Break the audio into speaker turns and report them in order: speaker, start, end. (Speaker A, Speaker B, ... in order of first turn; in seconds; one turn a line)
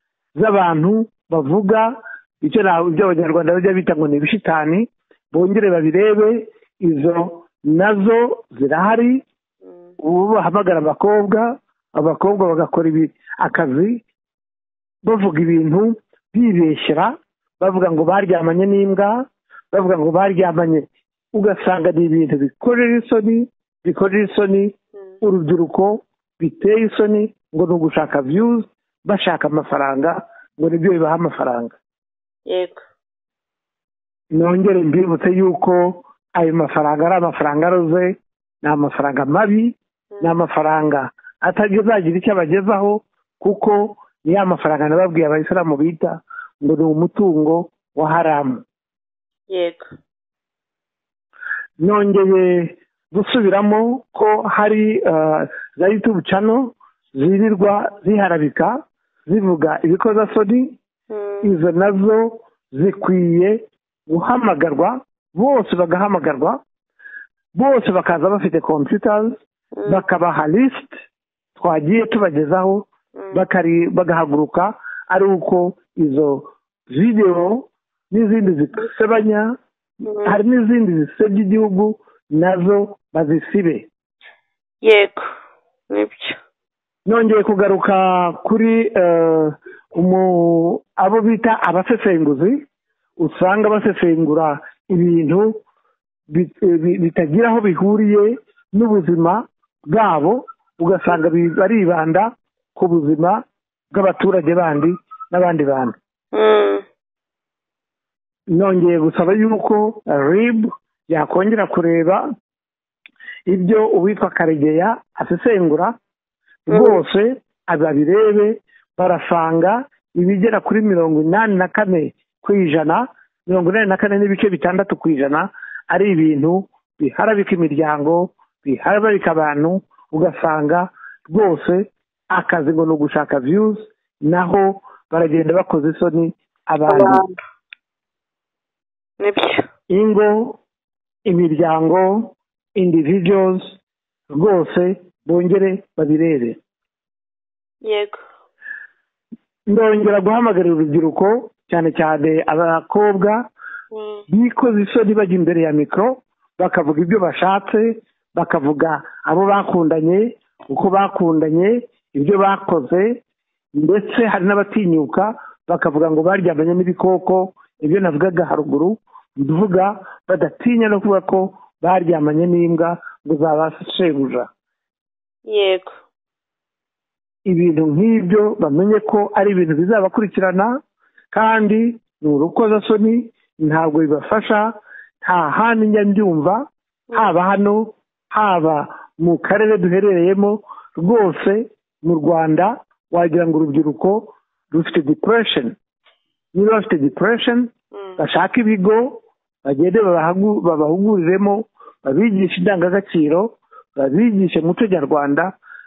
Speaker A: 0.4-9.2
Speaker A: 10.0-14.0
Speaker A: 15.0-31.8
Speaker B: 32.5-32.8
Speaker A: 34.3-48.6
Speaker B: 49.5-49.8
Speaker A: 51.8-60.8
Speaker B: 61.1-61.5
Speaker A: 61.4-66.6
Speaker A: 67.5-70.9
Speaker B: 69.8-70.0
Speaker A: 71.6-79.5
Speaker B: 80.0-80.4
Speaker A: 80.2-83.9
Speaker B: 84.8-85.2
Speaker B: 85.9-86.4
Speaker A: 87.1-92.6
Speaker A: 93.2-95.5
Speaker A: 96.3-103.4
Speaker A: 103.9-106.0
Speaker B: 106.3-106.8
Speaker A: 108.5-112.2
Speaker A: 113.5-115.9
Speaker A: 116.7-137.2
Speaker B: 116.7-117.0
Speaker B: 136.9-137.4
Speaker B: 139.2-139.7
Speaker A: 139.9-140.6
Speaker A: 141.3-143.8
Speaker A: 144.3-146.6
Speaker B: 147.8-148.2
Speaker A: 149.7-153.4
Speaker B: 153.9-154.2
Speaker A: 154.3-163.2
Speaker A: 163.8-174.5
Speaker B: 175.5-175.9
Speaker A: 177.5-180.7
Speaker A: 181.3-195.8
Speaker A: 196.5-205.5